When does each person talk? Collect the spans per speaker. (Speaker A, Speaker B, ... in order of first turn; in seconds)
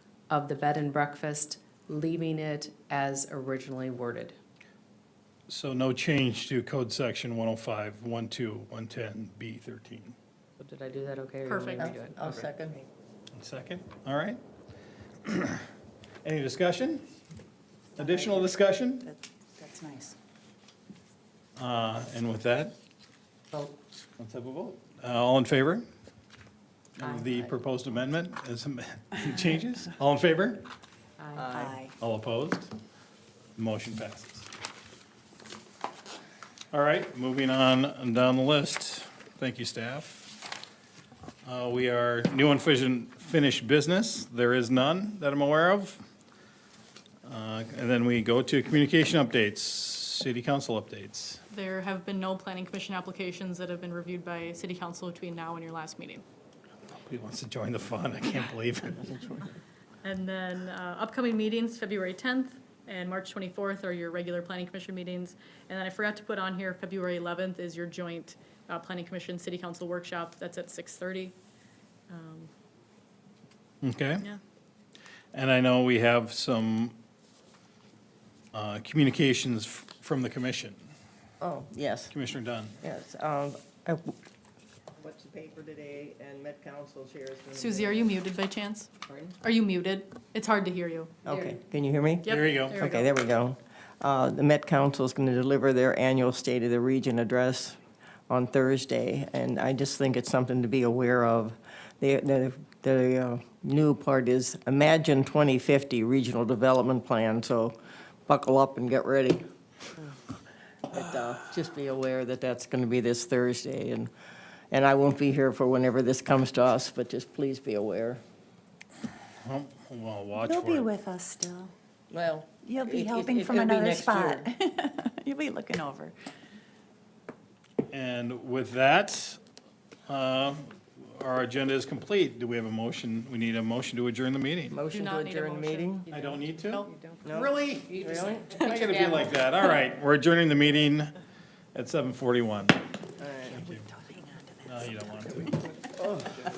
Speaker A: 0.3-4.4, 10.6-12.4, 27.0-27.5, 31.2-31.5, 91.3-91.6, 136.1-139.5
Speaker B: 5.5-10.2, 13.3-14.4, 15.2-15.7, 16.2-17.1, 18.0-19.1, 21.6-22.8, 24.2-25.9, 27.0-30.7, 32.0-32.7, 33.6-34.5, 36.7-40.4, 41.5-46.0, 47.2-51.4, 56.9-59.5, 73.8-74.3, 75.3-77.0, 78.5-80.8, 82.1-82.8, 92.3-92.8, 119.4-120.9, 127.9-129.4, 130.1-134.8, 136.1-138.0, 138.5-141.1, 141.7-142.8, 143.5-143.9, 144.7-145.7
Speaker C: 11.4-11.9, 51.5-56.2, 60.0-71.3, 72.1-72.5, 87.5-88.9, 89.4-91.1, 92.2-93.1, 134.9-135.9, 136.6-136.9
Speaker D: 11.8-12.8, 31.4-31.8, 81.4-82.1, 82.8-84.2, 85.0-88.0, 89.1-89.3, 91.2-97.8, 98.3-109.5, 110.9-114.1, 114.7-118.2, 122.1-124.5, 134.7-136.1, 137.2-138.6, 143.2-143.7, 146.0-146.3
Speaker E: 18.0-20.2, 31.5-31.9, 120.4-121.7, 122.6-126.2, 143.5-145.7